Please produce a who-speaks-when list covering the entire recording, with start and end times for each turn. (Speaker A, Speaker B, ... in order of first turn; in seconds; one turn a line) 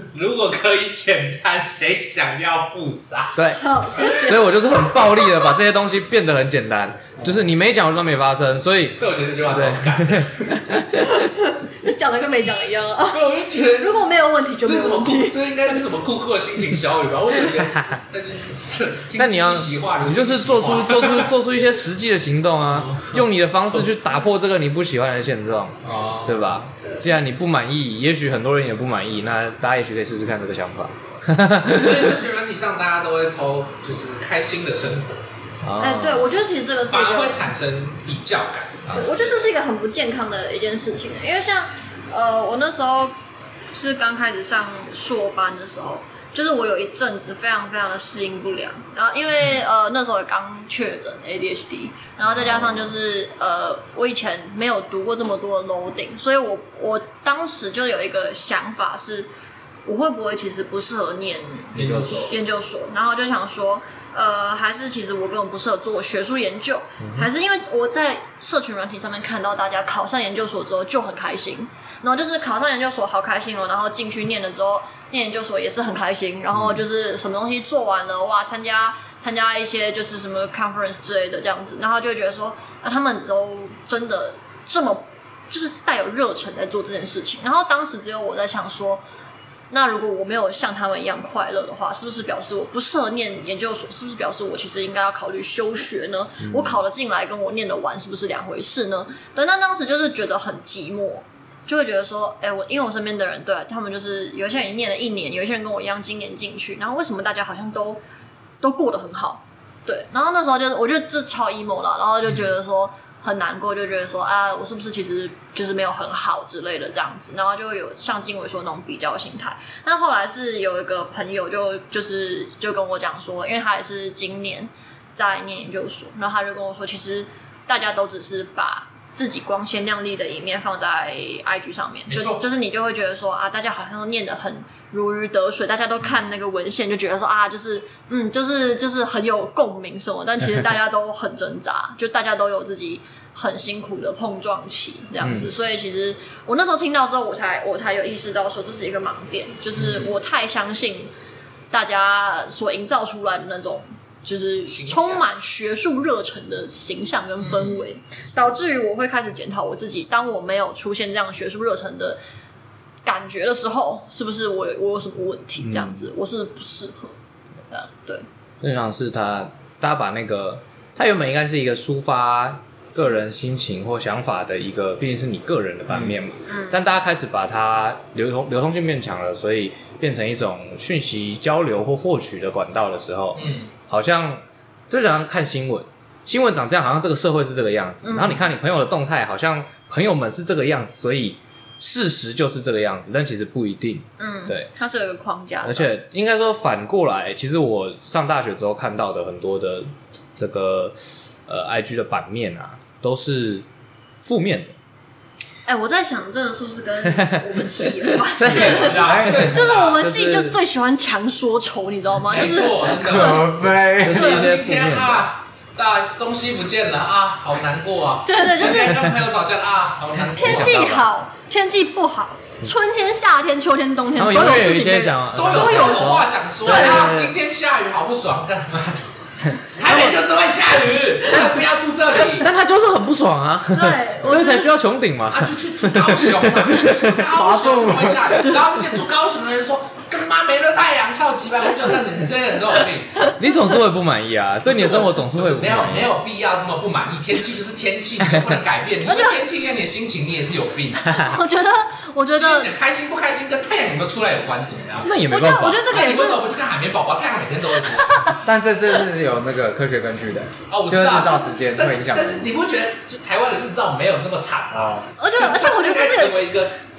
Speaker A: 0.1-3.4
Speaker B: 3.4-11.1
Speaker C: 3.6-5.3
Speaker A: 9.0-10.6
Speaker C: 10.9-15.4
Speaker A: 13.1-14.1
Speaker A: 14.6-21.3
Speaker B: 19.2-32.2
Speaker A: 22.7-23.2
Speaker A: 25.8-26.6
Speaker C: 26.8-27.1
Speaker A: 31.6-35.2
Speaker B: 35.6-36.3
Speaker C: 35.8-37.4
Speaker A: 36.9-39.5
Speaker B: 38.9-39.1
Speaker C: 38.9-43.1
Speaker C: 43.7-59.3
Speaker B: 52.3-52.9
Speaker C: 59.9-89.0
Speaker A: 61.7-62.4
Speaker B: 67.0-67.3
Speaker B: 76.5-76.8
Speaker C: 89.7-108.0
Speaker B: 96.4-96.8
Speaker C: 108.6-151.1
Speaker A: 132.1-132.4
Speaker B: 145.2-145.5
Speaker A: 149.8-150.1
Speaker C: 151.7-162.2
Speaker A: 154.7-155.2
Speaker A: 157.4-157.8
Speaker C: 163.0-167.1
Speaker B: 165.6-166.1
Speaker C: 167.7-168.2
Speaker B: 168.6-194.7
Speaker D: 175.9-176.2
Speaker C: 176.5-176.8
Speaker A: 183.3-183.7
Speaker C: 188.0-188.4
Speaker C: 194.2-195.9
Speaker B: 195.6-203.7
Speaker B: 204.2-204.8
Speaker C: 205.7-213.5
Speaker B: 208.3-210.6
Speaker A: 208.4-210.0
Speaker D: 208.4-209.7
Speaker A: 212.3-220.8
Speaker D: 212.9-214.4
Speaker B: 213.9-215.2
Speaker C: 218.2-219.1
Speaker B: 220.3-221.1
Speaker C: 220.3-226.1
Speaker B: 224.2-227.3
Speaker A: 225.3-229.0
Speaker C: 226.7-227.1
Speaker A: 229.7-232.5
Speaker B: 229.8-230.2
Speaker B: 231.3-231.6
Speaker B: 232.3-237.2
Speaker C: 233.7-234.7
Speaker A: 235.3-243.3
Speaker D: 237.2-238.4
Speaker B: 243.4-246.1
Speaker A: 244.7-251.2
Speaker B: 248.3-248.5
Speaker C: 249.0-249.4
Speaker C: 251.0-252.7
Speaker A: 252.3-255.2
Speaker B: 255.0-256.0
Speaker C: 255.3-256.4
Speaker A: 255.9-258.2
Speaker C: 257.9-258.4
Speaker D: 258.4-262.5
Speaker A: 260.7-266.7
Speaker D: 264.7-265.1
Speaker C: 265.2-266.4